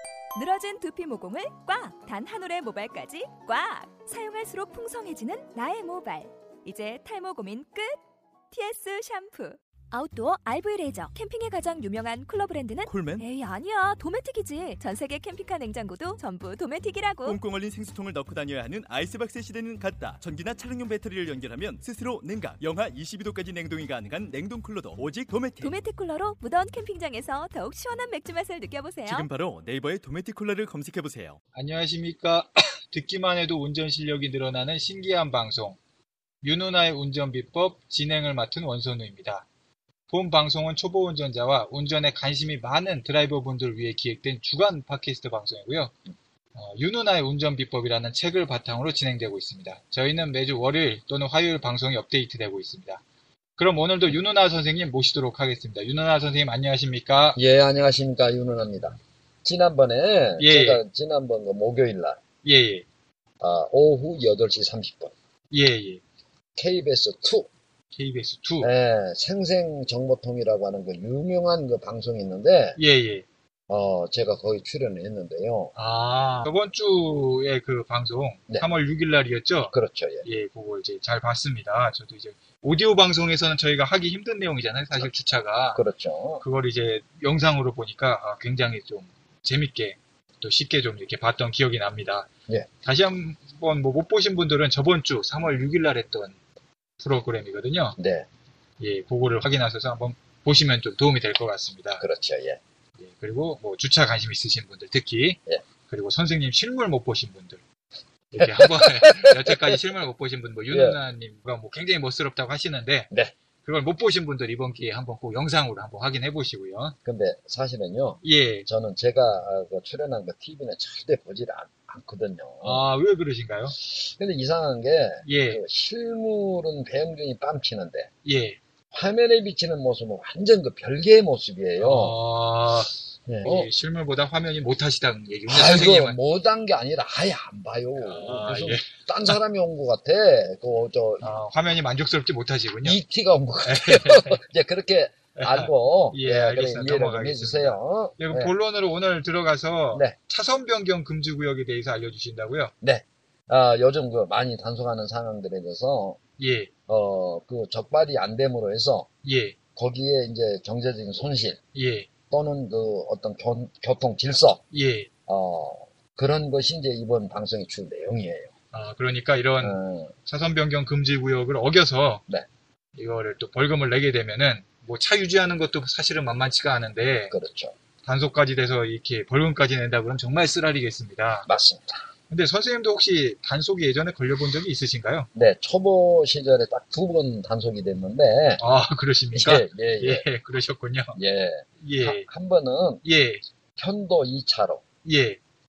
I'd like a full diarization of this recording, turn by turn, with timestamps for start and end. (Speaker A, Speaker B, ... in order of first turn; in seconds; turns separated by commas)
Speaker A: 0.3-8.0, Speaker A: 8.5-17.4, Speaker B: 12.8-13.2, Speaker B: 17.2-25.8, Speaker A: 25.6-29.3, Speaker B: 29.0-31.4, Speaker C: 31.5-35.8, Speaker C: 36.4-39.5, Speaker C: 40.1-45.9, Speaker C: 46.5-53.0, Speaker C: 53.6-57.4, Speaker D: 57.4-62.2, Speaker C: 60.4-60.8, Speaker C: 62.4-62.9, Speaker D: 63.4-65.1, Speaker C: 65.5-66.0, Speaker D: 66.5-67.5, Speaker C: 67.9-68.7, Speaker D: 68.6-72.8, Speaker C: 72.8-73.2, Speaker D: 73.7-75.7, Speaker C: 75.7-85.8, Speaker D: 79.7-80.2, Speaker D: 85.7-86.4, Speaker C: 86.4-92.3, Speaker C: 92.8-96.4, Speaker C: 97.0-98.0, Speaker D: 98.0-98.3, Speaker C: 98.8-102.0, Speaker D: 102.0-102.6, Speaker C: 103.0-107.6, Speaker C: 108.3-113.1, Speaker D: 108.4-109.8, Speaker D: 110.7-111.0, Speaker C: 113.6-117.0, Speaker D: 117.0-122.9, Speaker C: 118.2-118.7, Speaker C: 122.6-123.8, Speaker D: 123.9-128.1, Speaker C: 125.2-125.6, Speaker C: 128.2-128.6, Speaker D: 128.9-132.2, Speaker C: 131.8-132.9, Speaker D: 133.3-133.7, Speaker C: 133.4-136.2, Speaker D: 135.4-141.3, Speaker C: 138.0-139.4, Speaker C: 141.2-143.0, Speaker D: 142.8-148.5, Speaker C: 143.6-144.4, Speaker C: 145.3-152.7, Speaker D: 152.8-156.2, Speaker C: 156.4-156.7, Speaker D: 156.9-159.1, Speaker C: 159.2-159.6, Speaker D: 159.8-161.6, Speaker C: 161.7-162.1, Speaker D: 162.3-164.6, Speaker C: 164.7-165.1, Speaker D: 165.3-168.5, Speaker C: 168.7-172.2, Speaker D: 169.6-170.1, Speaker C: 173.0-177.3, Speaker D: 177.3-177.7, Speaker C: 178.0-181.5, Speaker D: 181.4-182.0, Speaker C: 182.3-185.3, Speaker D: 185.3-188.6, Speaker C: 188.6-191.2, Speaker D: 189.3-190.2, Speaker D: 191.1-193.0, Speaker C: 191.8-192.3, Speaker C: 193.0-193.4, Speaker D: 193.8-194.8, Speaker C: 195.0-195.4